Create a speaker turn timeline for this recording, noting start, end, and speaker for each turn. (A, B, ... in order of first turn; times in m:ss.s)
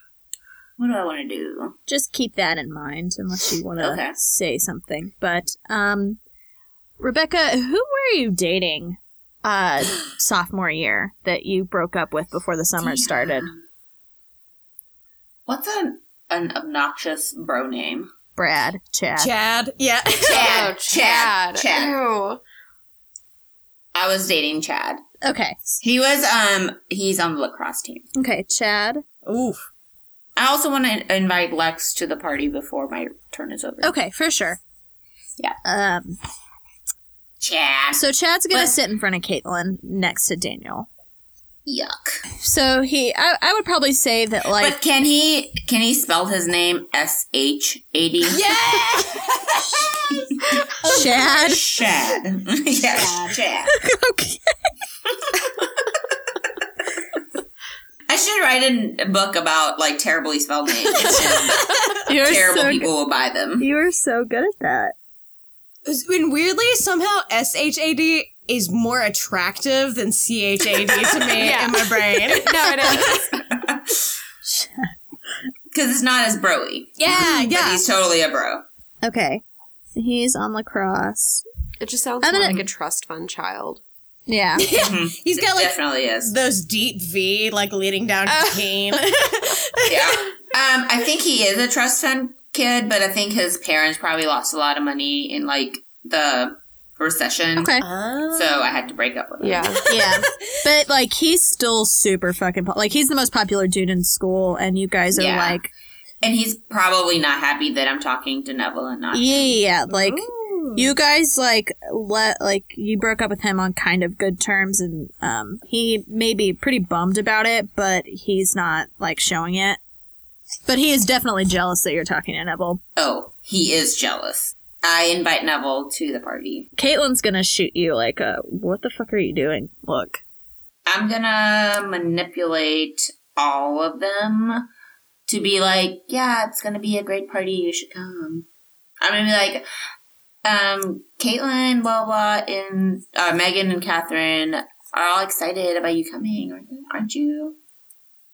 0:00.8-0:01.8 A
0:01.9-0:06.2 B
0:03.8-0:04.2 A
0:07.0-0:13.5 B
0:12.8-0:13.6 A
0:15.5-0:18.1 A
0:18.4-0:19.3 B
0:19.2-0:20.7 C
0:20.3-0:21.9 A
0:20.3-0:22.4 D
0:23.9-0:25.0 A
0:25.2-0:25.8 B
0:25.8-0:28.0 A
0:28.2-0:29.0 B
0:29.2-0:29.6 C
0:30.4-0:33.9 A
0:33.8-0:34.6 B
0:35.6-0:36.2 B
0:37.4-0:38.0 A
0:37.9-0:40.9 B
0:41.6-0:42.1 A
0:42.4-0:44.8 B
0:44.6-0:48.4 A
0:48.3-0:50.3 C
0:50.8-0:51.6 B
0:50.9-0:53.7 A
0:53.7-0:54.5 B
0:58.1-1:01.7 A
1:02.0-1:02.9 B
1:02.2-1:03.7 A
1:03.6-1:04.9 B
1:05.8-1:13.2 C
1:11.3-1:13.3 D
1:13.4-1:13.8 A
1:14.4-1:14.9 B
1:15.7-1:18.6 A
1:17.0-1:17.9 C
1:17.1-1:17.4 B
1:19.0-1:19.4 B
1:19.9-1:21.4 B
1:21.8-1:23.8 D
1:22.2-1:22.6 B
1:24.3-1:24.6 B
1:24.6-1:30.0 C
1:24.7-1:26.3 A
1:28.3-1:29.1 D
1:29.9-1:37.7 A
1:37.6-1:37.8 B
1:37.8-1:38.7 C
1:38.3-1:39.8 A
1:39.4-1:39.8 D
1:39.9-1:45.7 B
1:45.1-1:45.6 A
1:46.2-1:49.5 A
1:49.1-1:59.8 B
1:49.9-1:50.9 C
2:00.7-2:02.8 B
2:03.0-2:06.7 A
2:06.8-2:10.2 B
2:10.9-2:14.7 A
2:15.3-2:18.5 A
2:19.0-2:19.6 A
2:20.4-2:27.6 A